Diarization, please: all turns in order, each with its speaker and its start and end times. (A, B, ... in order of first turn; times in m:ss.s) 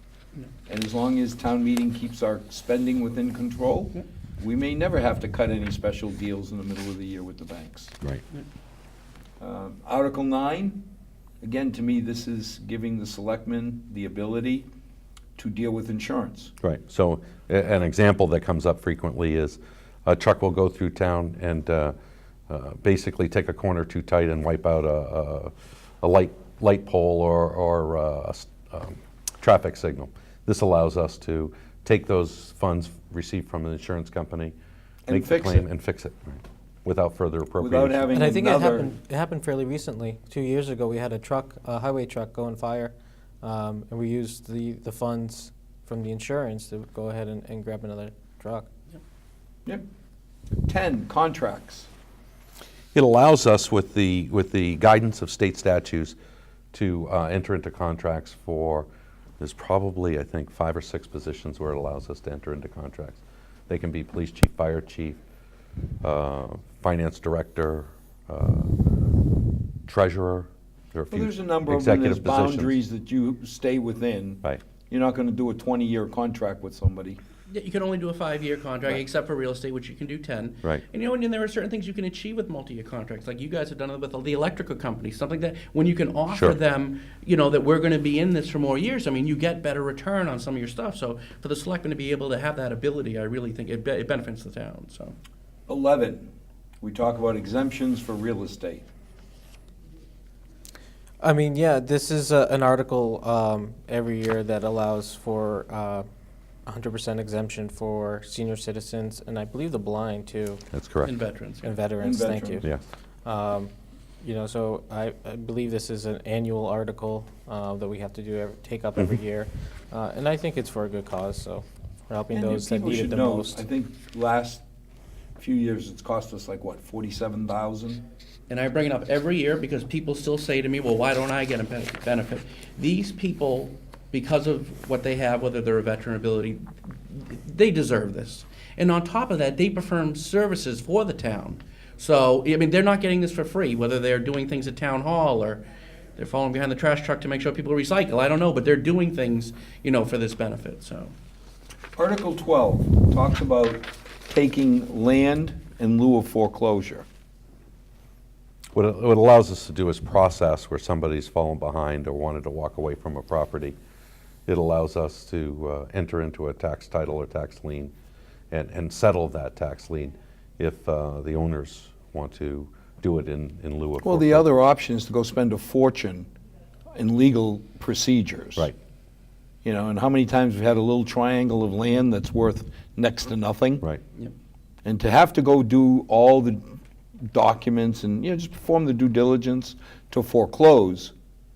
0:00.7-0:08.0 A
0:09.4-0:10.8 A
0:11.4-0:14.7 A
0:15.4-0:16.5 A
0:16.6-0:21.9 B
0:22.5-0:34.5 B
0:35.1-0:35.6 A
0:35.1-0:38.2 B
0:37.6-0:38.9 A
0:38.1-0:48.7 C
0:50.6-0:51.9 A
0:52.9-0:56.2 B
0:56.7-0:58.9 B
0:59.4-1:05.2 B
1:06.0-1:08.7 B
1:09.9-1:12.8 B
1:11.1-1:17.2 A
1:17.5-1:35.1 D
1:26.3-1:26.6 B
1:35.7-1:36.3 A
1:36.8-1:38.9 A
1:41.2-1:46.0 C
1:46.7-1:50.6 C
1:50.7-1:51.1 B
1:51.0-1:51.7 D
1:51.6-1:52.7 C
1:52.0-1:52.6 A
1:53.2-1:53.7 C
1:54.2-2:03.6 C
2:02.3-2:04.6 A
2:05.4-2:08.0 A
2:08.5-2:25.6 D
2:26.2-2:31.1 D
2:32.0-2:37.0 A
2:38.7-2:43.8 B
2:44.5-2:47.9 B
2:48.5-2:54.5 B
2:54.0-2:56.3 A
2:56.9-2:58.7 A
2:59.6-3:03.8 A
3:04.8-3:06.6 A
3:07.3-3:11.1 A